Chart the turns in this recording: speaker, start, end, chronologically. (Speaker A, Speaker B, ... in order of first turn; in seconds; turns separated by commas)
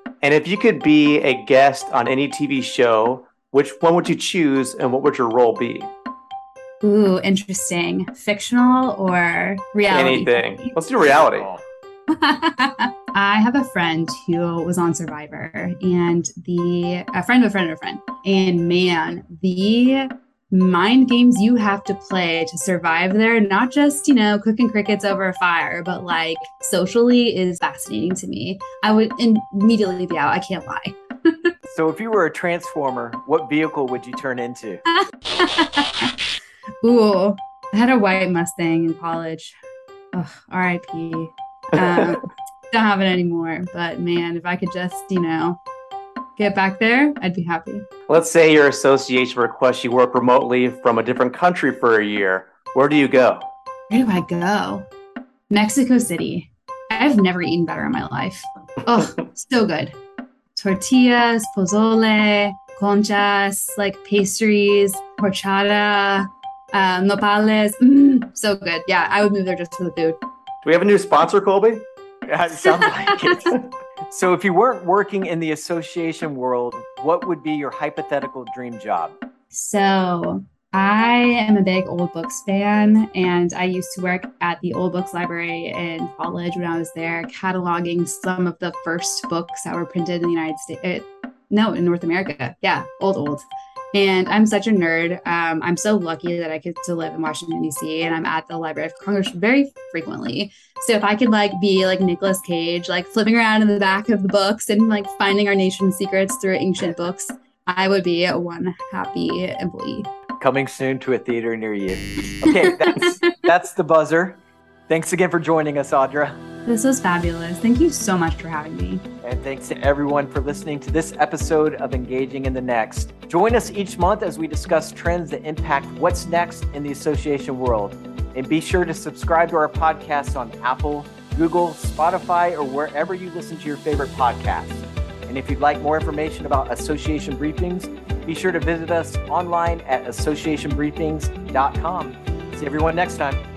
Speaker A: 0.2-5.9, Speaker B: 6.8-10.7, Speaker A: 9.9-11.5, Speaker C: 11.3-11.6, Speaker B: 12.1-31.5, Speaker C: 31.7-34.8, Speaker B: 34.9-36.1, Speaker B: 36.8-39.5, Speaker B: 40.1-45.6, Speaker B: 46.4-47.9, Speaker A: 48.1-53.5, Speaker B: 53.9-54.8, Speaker B: 55.5-60.0, Speaker B: 60.5-70.2, Speaker A: 70.6-71.8, Speaker C: 72.2-73.5, Speaker B: 72.6-73.3, Speaker C: 74.1-79.2, Speaker B: 79.5-110.1, Speaker C: 110.4-116.4, Speaker B: 112.5-113.2, Speaker B: 116.7-119.0, Speaker C: 119.2-143.4